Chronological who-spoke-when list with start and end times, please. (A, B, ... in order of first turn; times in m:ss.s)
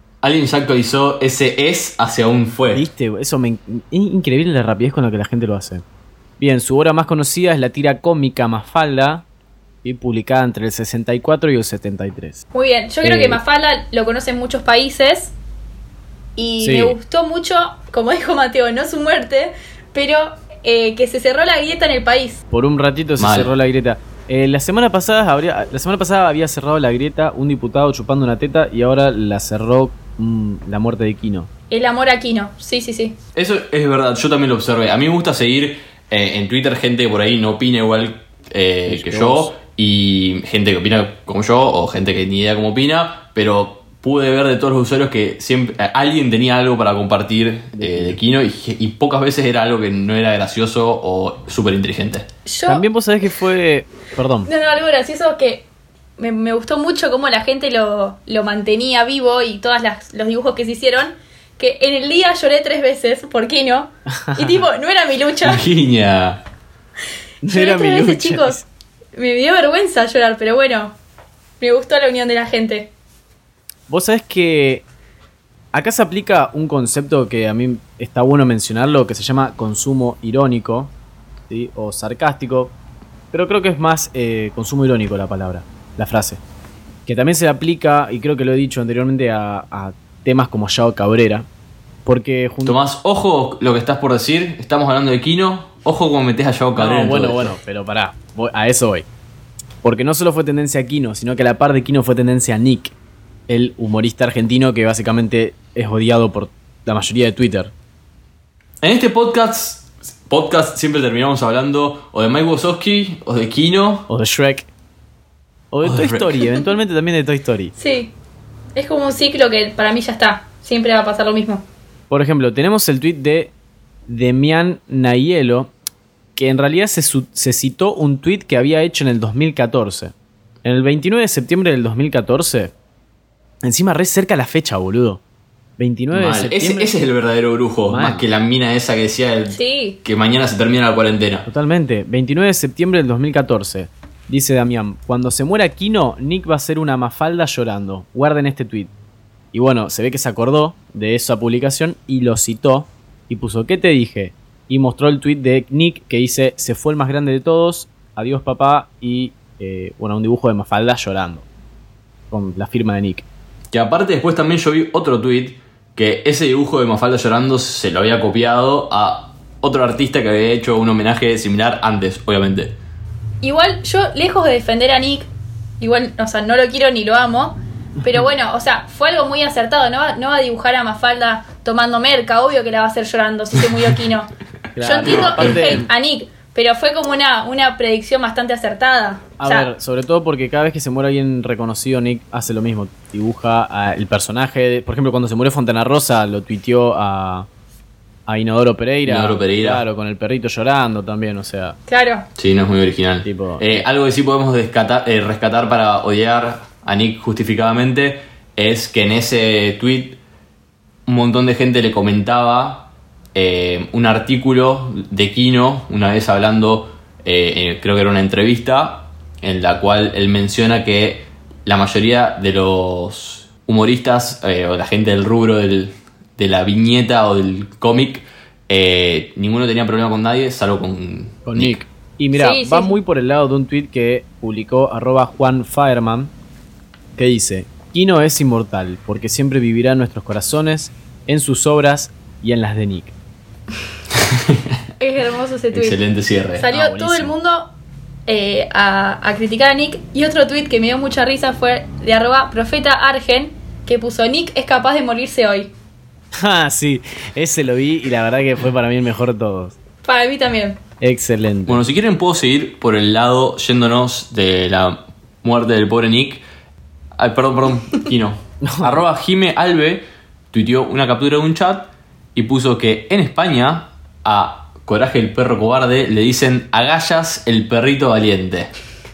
0:00.2-0:02.9 A
0:02.7-0:05.8 B
0:06.4-0:09.3 B
0:09.8-0:12.4 B
0:12.5-0:15.3 C
0:13.0-0:13.4 B
0:16.4-0:22.4 C
0:16.6-0:17.0 B
0:22.5-0:31.5 B
0:23.2-0:23.5 A
0:31.7-0:33.2 C
0:33.4-0:52.3 A
0:38.9-0:39.5 B
0:47.7-0:48.2 B
0:52.5-0:52.8 C
0:52.7-0:54.5 B
0:54.4-0:55.7 C
0:56.2-1:05.6 C
1:04.2-1:04.6 B
1:05.4-1:06.4 A
1:07.4-1:08.6 B
1:07.5-1:08.6 C
1:09.2-1:11.0 C
1:11.6-1:12.9 C
1:13.9-1:14.9 B
1:15.7-1:20.9 B
1:21.5-1:22.8 B
1:23.3-1:26.4 B
1:27.1-1:31.5 B
1:32.1-1:32.8 B
1:32.6-1:37.6 A
1:36.8-1:39.1 B
1:39.8-1:42.9 B
1:43.5-1:47.7 B
1:48.8-1:54.1 A
1:54.1-1:54.7 B
1:55.7-1:57.7 B
1:55.8-1:56.6 A
1:57.8-1:58.1 C
1:58.8-2:01.6 C
2:02.1-2:03.5 B
2:04.1-2:05.7 B
2:06.4-2:10.1 B
2:10.6-2:12.7 B
2:13.6-2:15.2 B
2:15.8-2:16.9 B
2:16.1-2:21.5 A
2:17.9-2:18.3 B
2:19.5-2:20.0 C
2:21.5-2:28.9 B
2:29.5-2:41.5 B
2:42.3-2:43.3 B
2:43.7-2:52.8 A
2:53.4-2:55.3 C
2:55.8-3:09.7 C
3:04.8-3:05.9 B
3:05.0-3:05.8 A
3:09.4-3:17.5 B
3:18.3-3:21.8 B
3:19.0-3:19.8 A
3:21.9-3:22.3 C
3:22.4-3:30.2 A
3:23.2-3:23.8 B
3:31.1-3:51.8 A
3:51.4-3:56.3 B
3:52.3-3:53.0 C
3:57.2-4:03.1 B
4:04.2-4:04.8 A
4:05.0-4:06.0 C
4:05.7-4:06.7 A
4:06.6-4:07.7 C
4:06.7-4:07.3 B
4:08.3-4:15.7 C
4:16.4-4:19.8 B
4:20.0-4:20.8 C
4:21.0-4:21.8 B
4:21.7-4:26.4 A
4:27.2-4:38.7 A
4:28.6-4:29.0 B